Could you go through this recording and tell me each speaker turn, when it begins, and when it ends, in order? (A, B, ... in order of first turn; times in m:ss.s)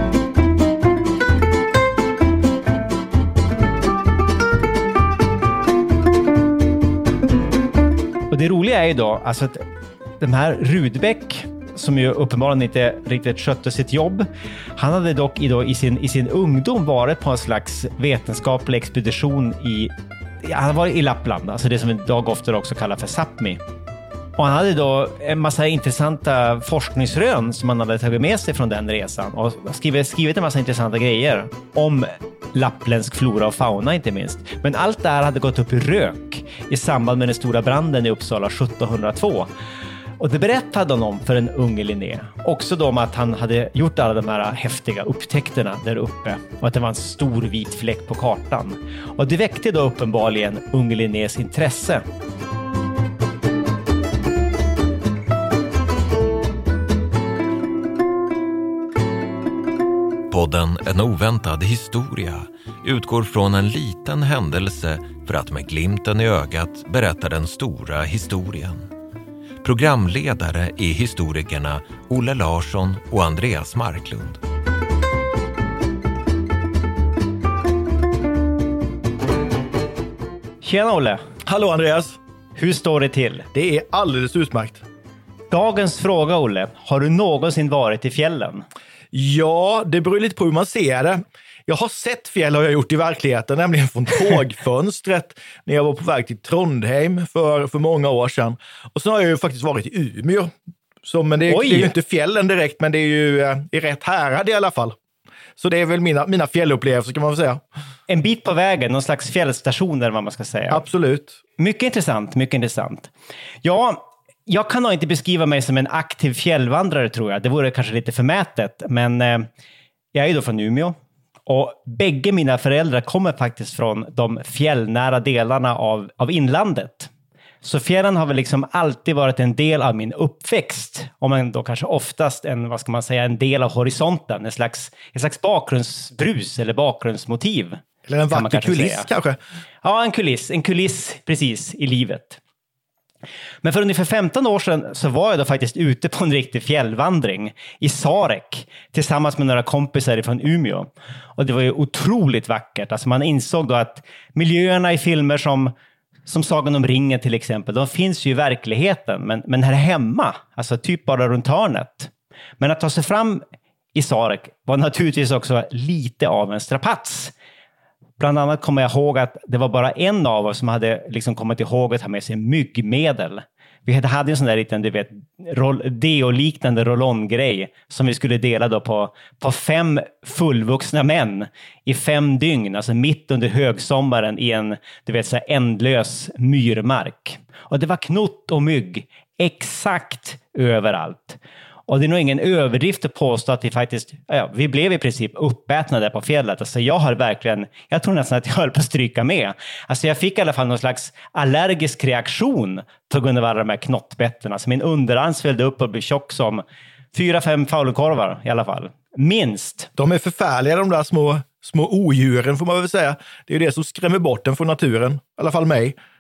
0:08.3-0:09.6 A
0:10.2-0:23.6 A
0:24.4-0:39.5 A
0:40.2-0:52.0 A
1:00.3-1:08.9 B
1:09.6-1:14.4 B
1:20.6-1:21.2 A
1:21.5-1:22.2 C
1:22.6-1:23.5 A
1:23.5-1:24.8 C
1:25.5-1:28.7 A
1:29.1-1:40.5 C
1:41.0-1:45.0 C
1:41.5-1:41.9 A
1:45.6-1:47.6 C
1:48.1-1:50.8 A
1:50.7-1:51.4 C
1:51.6-1:53.1 A
1:53.6-1:59.5 A
2:00.1-2:01.0 A
2:01.5-2:07.1 A
2:07.6-2:19.1 A
2:18.1-2:19.4 C
2:19.8-2:22.4 A
2:23.6-2:35.7 A
2:36.3-2:47.3 A
2:48.2-3:26.6 A
3:27.1-3:29.9 A
3:30.0-3:36.0 C